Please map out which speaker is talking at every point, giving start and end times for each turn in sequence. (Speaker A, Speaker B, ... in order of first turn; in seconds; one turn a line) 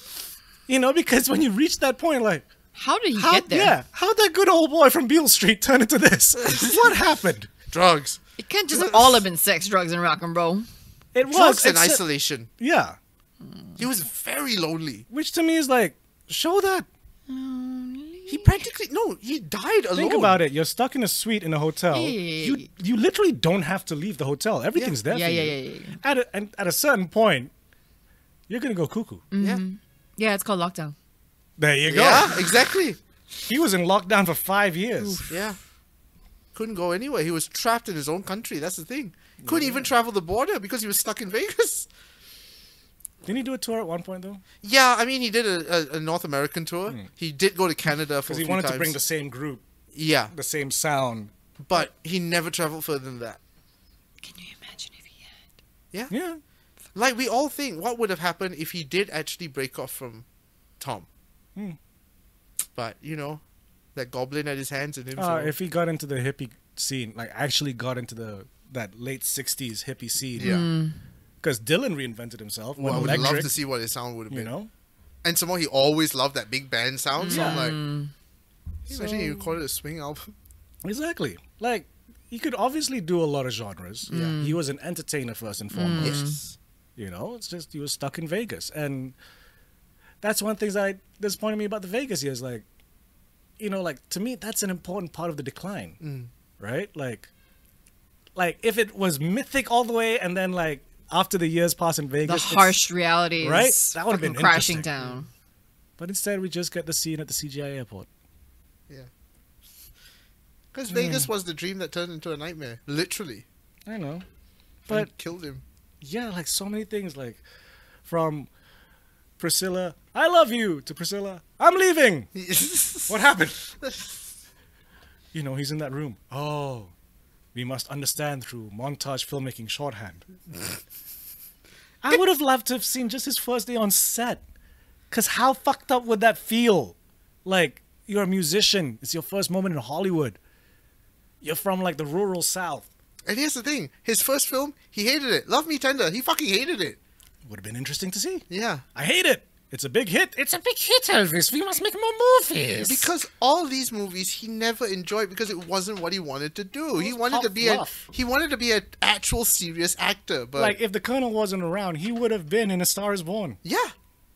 Speaker A: 0.7-2.4
Speaker B: 2.8-3.8
Speaker A: 3.1-7.5
Speaker C: 7.7-8.2
Speaker B: 8.4-10.7
Speaker C: 8.7-9.2
Speaker A: 11.1-12.0
Speaker C: 11.2-12.5
Speaker A: 12.6-13.0
Speaker C: 13.8-15.1
Speaker A: 15.1-16.9
Speaker B: 17.3-18.7
Speaker C: 18.3-20.4
Speaker A: 19.9-27.5
Speaker B: 21.9-22.7
Speaker B: 25.1-26.0
Speaker A: 28.5-29.2
Speaker B: 29.3-30.9
Speaker A: 31.6-32.4
Speaker C: 31.9-33.0
Speaker A: 33.5-35.3
Speaker B: 35.0-35.3
Speaker C: 35.3-35.6
Speaker C: 36.5-41.9
Speaker A: 39.4-39.9
Speaker A: 43.2-44.4
Speaker C: 44.6-49.0
Speaker A: 48.3-49.6
Speaker C: 49.9-50.3
Speaker A: 50.3-51.3
Speaker C: 51.6-53.4
Speaker B: 54.2-55.3
Speaker A: 56.1-56.4
Speaker C: 56.9-60.2
Speaker C: 60.8-61.1
Speaker C: 62.7-63.4
Speaker C: 63.9-65.5
Speaker A: 65.2-70.7
Speaker C: 70.4-70.6
Speaker B: 70.4-71.0
Speaker A: 71.4-73.5
Speaker C: 72.8-74.5
Speaker A: 74.3-74.7
Speaker C: 75.2-77.8
Speaker B: 77.2-78.1
Speaker A: 77.3-77.7
Speaker C: 78.9-80.3
Speaker B: 79.0-79.4
Speaker A: 80.8-86.2
Speaker B: 84.1-84.6
Speaker C: 84.1-84.3
Speaker B: 85.7-86.4
Speaker C: 86.0-86.5
Speaker A: 87.0-89.1
Speaker A: 90.2-92.6
Speaker A: 93.6-96.0
Speaker C: 96.0-96.3
Speaker A: 96.6-97.3
Speaker A: 98.3-102.8
Speaker B: 102.2-105.3
Speaker A: 103.4-104.9
Speaker A: 106.0-108.1
Speaker C: 110.7-113.4
Speaker A: 110.9-111.3
Speaker A: 113.9-114.2
Speaker C: 114.9-115.6
Speaker A: 116.0-117.4
Speaker A: 118.0-118.5
Speaker A: 119.4-122.3
Speaker C: 122.3-123.1
Speaker A: 123.1-123.6
Speaker C: 123.8-124.2
Speaker A: 125.3-126.9
Speaker A: 127.5-130.3
Speaker A: 132.0-134.4
Speaker A: 135.1-140.4
Speaker A: 141.4-142.9
Speaker C: 143.2-147.0
Speaker A: 147.4-153.1
Speaker C: 148.5-148.8
Speaker C: 152.8-160.8
Speaker A: 157.0-158.1
Speaker A: 160.6-163.6
Speaker C: 163.6-163.9